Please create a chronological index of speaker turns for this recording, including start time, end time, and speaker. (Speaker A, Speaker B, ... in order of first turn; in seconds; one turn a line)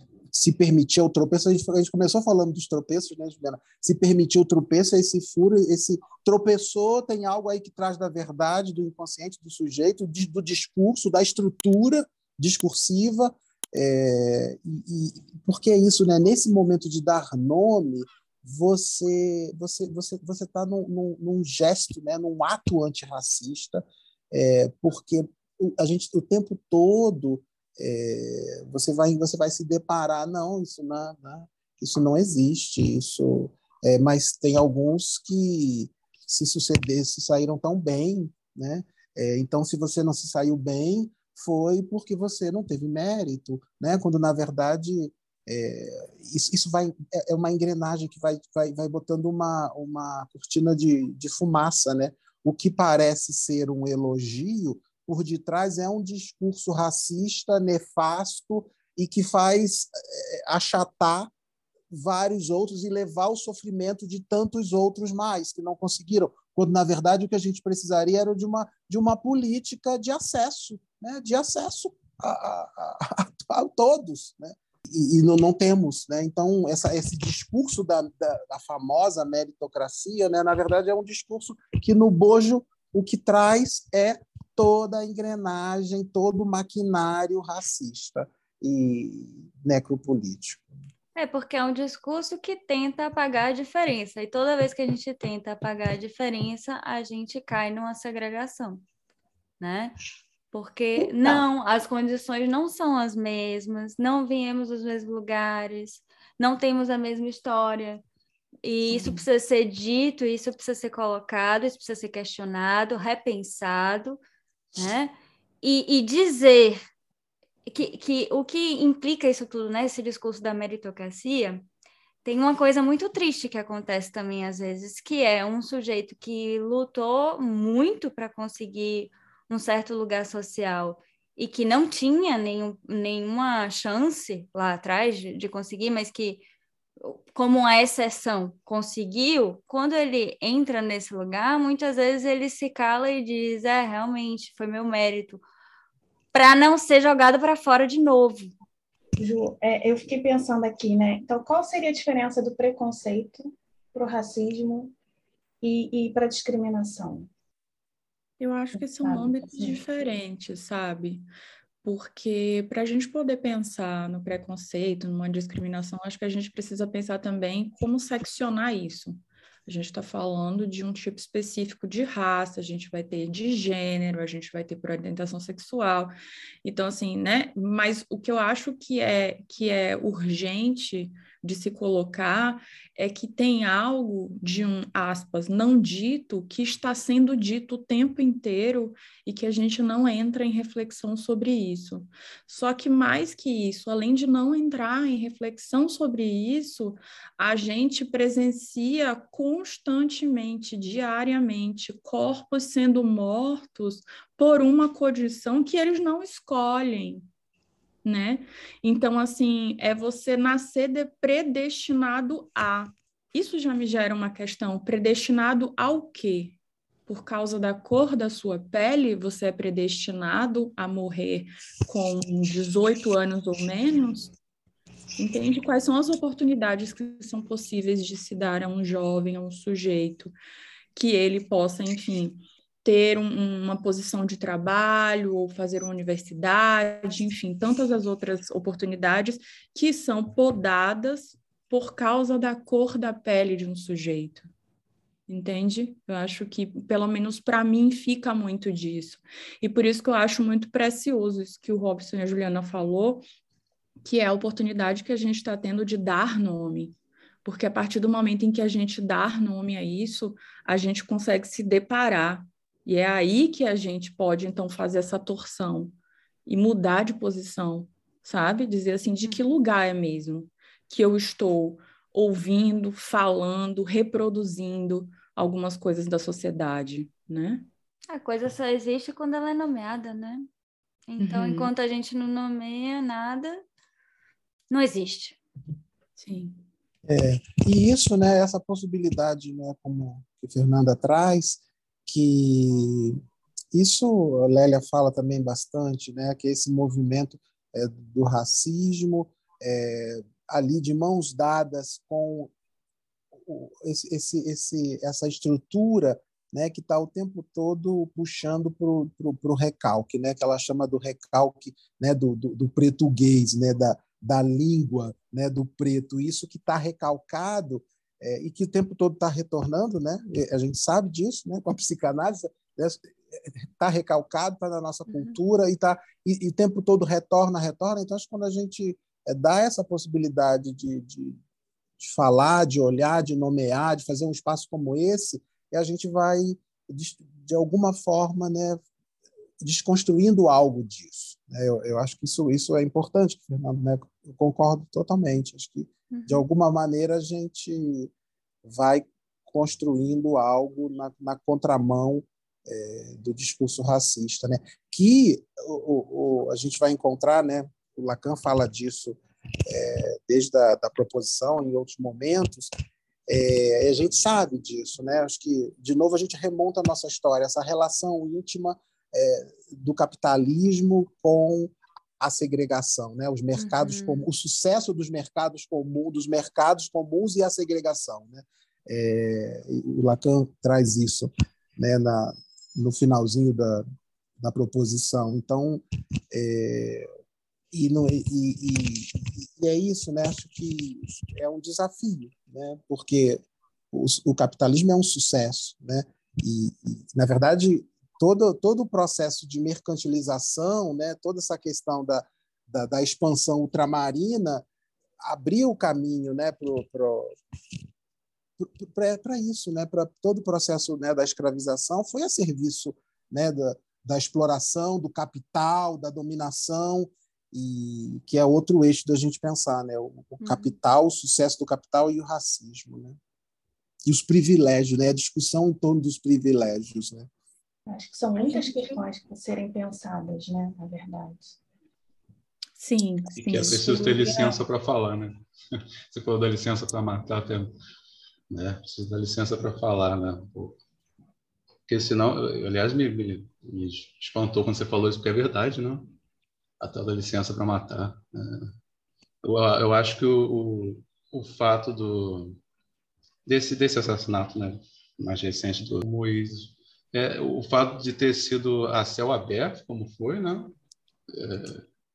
Speaker A: 0.3-61.3
Speaker A: 61.9-90.6
Speaker B: 91.2-98.8
Speaker B: 99.6-100.0
Speaker B: 100.5-108.0
Speaker B: 108.6-114.2
Speaker B: 114.8-116.8
Speaker B: 117.7-121.7
Speaker B: 122.2-136.4
Speaker B: 137.0-145.4
Speaker B: 146.3-148.5
Speaker C: 149.2-154.9
Speaker C: 155.6-157.3
Speaker D: 158.4-161.3
Speaker C: 158.7-159.8
Speaker D: 161.8-176.1
Speaker D: 176.6-207.2
Speaker D: 208.0-224.3
Speaker D: 225.2-230.3
Speaker D: 230.9-244.5
Speaker D: 245.3-253.2
Speaker D: 254.0-265.9
Speaker D: 266.4-277.6
Speaker B: 269.2-269.5
Speaker B: 278.1-280.5
Speaker B: 281.1-283.6
Speaker D: 281.2-281.7
Speaker B: 284.7-285.4
Speaker D: 286.2-286.6
Speaker A: 287.1-293.2
Speaker A: 293.7-302.5
Speaker A: 303.4-331.4
Speaker B: 325.1-325.4
Speaker A: 332.0-338.8
Speaker A: 339.6-348.1
Speaker B: 346.1-346.4
Speaker A: 348.6-362.7
Speaker A: 363.3-383.8
Speaker B: 373.6-374.2
Speaker A: 384.4-387.1
Speaker A: 387.7-404.6
Speaker A: 405.2-407.4
Speaker A: 408.6-423.2
Speaker B: 420.4-420.8
Speaker A: 424.1-427.3
Speaker C: 427.9-431.6
Speaker D: 428.4-429.0
Speaker D: 432.8-434.4
Speaker E: 433.4-437.7
Speaker C: 433.9-434.5
Speaker E: 438.5-440.8
Speaker E: 441.9-446.1
Speaker E: 446.8-448.7
Speaker E: 449.4-452.6
Speaker E: 453.4-460.7
Speaker E: 461.3-461.8